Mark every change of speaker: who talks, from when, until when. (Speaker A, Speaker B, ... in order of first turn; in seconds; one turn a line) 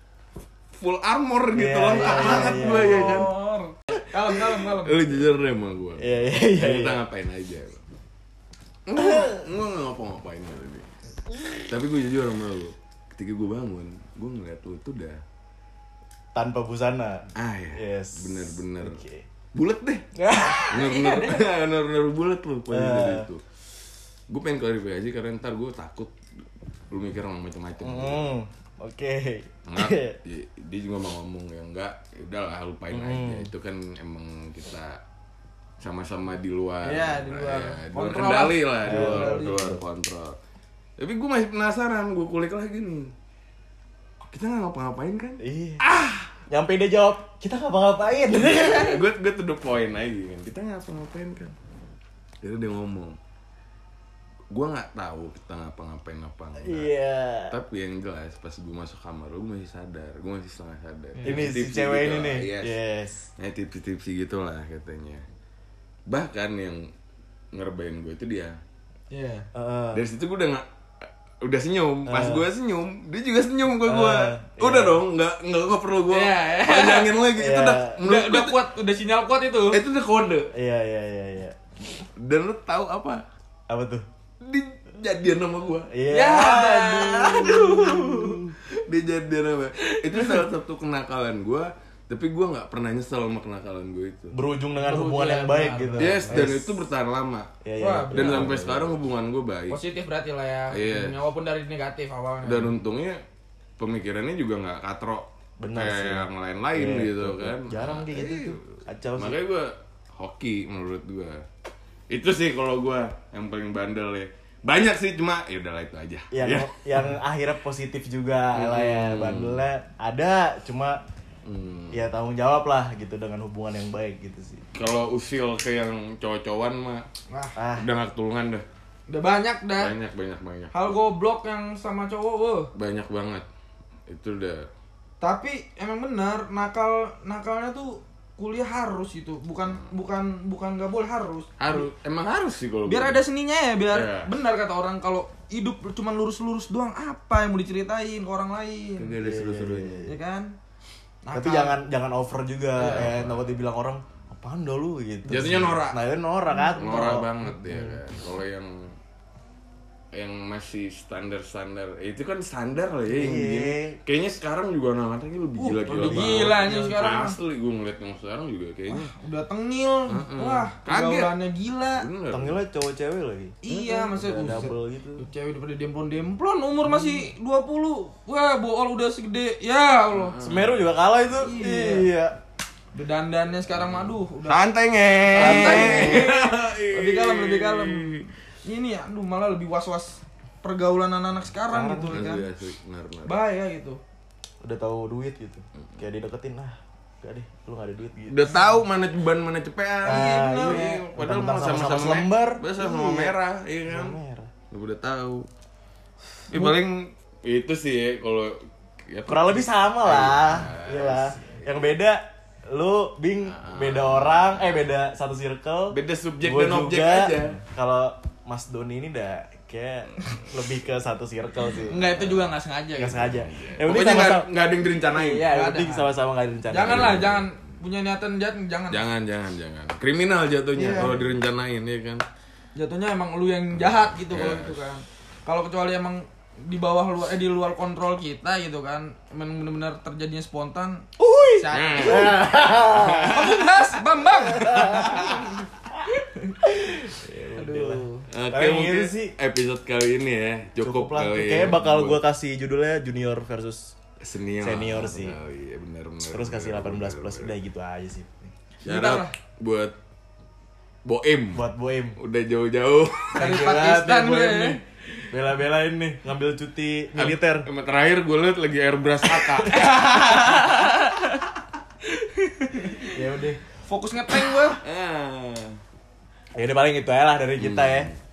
Speaker A: 0.8-3.3
Speaker B: 1.5-3.3
Speaker C: 1.9-5.2
Speaker A: 4.6-7.8
Speaker B: 6.0-7.0
Speaker A: 8.8-10.9
Speaker B: 9.0-9.4
Speaker B: 11.3-11.7
Speaker A: 11.7-15.2
Speaker B: 16.3-19.2
Speaker A: 17.3-19.0
Speaker A: 19.5-20.1
Speaker C: 20.2-21.4
Speaker A: 20.7-23.4
Speaker B: 22.7-23.3
Speaker A: 24.3-26.1
Speaker A: 26.9-28.3
Speaker B: 27.8-30.2
Speaker A: 29.6-35.0
Speaker B: 32.9-33.5
Speaker A: 35.8-40.4
Speaker C: 36.8-39.6
Speaker B: 38.8-39.8
Speaker A: 41.0-43.1
Speaker A: 44.3-46.4
Speaker B: 45.4-45.8
Speaker B: 46.5-49.0
Speaker A: 48.5-51.5
Speaker A: 52.4-53.2
Speaker A: 54.5-56.9
Speaker B: 56.6-57.6
Speaker A: 57.5-62.8
Speaker C: 61.2-61.5
Speaker B: 61.2-63.3
Speaker A: 63.4-65.2
Speaker A: 66.1-66.9
Speaker A: 67.5-68.6
Speaker C: 69.1-69.5
Speaker B: 69.5-70.0
Speaker A: 69.9-78.6
Speaker B: 72.0-72.5
Speaker B: 73.8-75.0
Speaker C: 76.1-77.1
Speaker B: 77.3-78.0
Speaker C: 78.0-79.8
Speaker A: 79.7-80.5
Speaker B: 80.5-81.6
Speaker A: 82.0-83.2
Speaker B: 83.7-84.0
Speaker A: 84.4-87.8
Speaker B: 85.9-88.5
Speaker C: 86.1-88.4
Speaker A: 88.5-94.3
Speaker C: 89.8-90.4
Speaker B: 94.3-96.7
Speaker C: 94.8-96.5
Speaker A: 96.0-97.5
Speaker B: 97.6-99.0
Speaker C: 97.8-98.5
Speaker A: 98.1-99.8
Speaker C: 99.7-102.7
Speaker A: 100.7-101.1
Speaker A: 102.4-103.2
Speaker A: 103.8-108.6
Speaker B: 105.6-109.4
Speaker A: 109.2-111.4
Speaker A: 112.1-117.1
Speaker B: 116.3-121.0
Speaker A: 118.5-119.6
Speaker A: 121.4-122.1
Speaker B: 121.9-124.6
Speaker A: 124.7-127.1
Speaker C: 127.3-127.5
Speaker B: 127.5-127.9
Speaker A: 127.8-128.6
Speaker C: 129.1-129.9
Speaker A: 129.8-130.7
Speaker C: 130.7-132.7
Speaker A: 132.7-133.4
Speaker A: 134.1-134.7
Speaker C: 135.2-141.8
Speaker A: 139.6-139.9
Speaker A: 141.6-143.2
Speaker C: 142.9-149.1
Speaker A: 143.9-144.3
Speaker A: 149.0-150.1
Speaker B: 149.2-150.2
Speaker C: 150.0-150.5
Speaker C: 151.2-151.8
Speaker B: 151.3-158.0
Speaker A: 152.8-153.5
Speaker A: 155.2-156.0
Speaker C: 156.5-157.1
Speaker A: 156.8-158.9
Speaker A: 160.1-169.1
Speaker B: 163.1-164.0
Speaker C: 165.6-167.4
Speaker B: 166.0-167.0
Speaker C: 168.9-172.1
Speaker A: 170.1-171.3
Speaker A: 171.9-172.6
Speaker B: 172.3-175.2
Speaker C: 173.6-180.3
Speaker A: 180.1-180.9
Speaker B: 180.4-182.4
Speaker C: 181.4-182.1
Speaker C: 182.9-184.6
Speaker A: 183.8-188.3
Speaker C: 185.3-188.1
Speaker B: 185.3-186.3
Speaker C: 188.6-192.4
Speaker B: 191.7-192.2
Speaker A: 192.1-193.3
Speaker C: 193.2-194.0
Speaker B: 194.6-198.4
Speaker A: 198.3-204.2
Speaker C: 198.5-198.7
Speaker B: 200.0-204.5
Speaker C: 200.1-200.9
Speaker A: 204.7-205.5
Speaker A: 206.5-211.7
Speaker B: 209.3-222.4
Speaker A: 213.4-214.9
Speaker A: 215.9-217.6
Speaker C: 221.8-223.2
Speaker B: 222.9-224.5
Speaker A: 223.1-225.5
Speaker B: 225.1-227.3
Speaker C: 225.1-226.1
Speaker C: 226.7-229.0
Speaker A: 226.8-227.5
Speaker A: 228.9-232.2
Speaker B: 230.8-231.3
Speaker C: 230.8-231.2
Speaker C: 232.7-242.4
Speaker A: 233.9-234.8
Speaker B: 241.2-243.4
Speaker A: 241.7-243.9
Speaker C: 243.3-246.5
Speaker B: 244.5-245.3
Speaker A: 244.6-245.6
Speaker B: 246.6-249.3
Speaker C: 247.5-248.2
Speaker A: 248.3-252.2
Speaker B: 250.8-254.0
Speaker A: 254.2-257.5
Speaker B: 254.6-255.4
Speaker B: 256.3-258.5
Speaker C: 258.8-259.3
Speaker A: 258.8-259.9
Speaker A: 261.0-263.6
Speaker B: 261.5-262.2
Speaker B: 263.4-264.8
Speaker C: 263.4-264.8
Speaker B: 265.3-267.7
Speaker A: 267.1-270.7
Speaker C: 269.4-271.4
Speaker C: 272.1-273.2
Speaker B: 273.1-273.6
Speaker C: 273.9-274.8
Speaker A: 274.8-275.8
Speaker B: 276.5-278.1
Speaker A: 277.6-278.1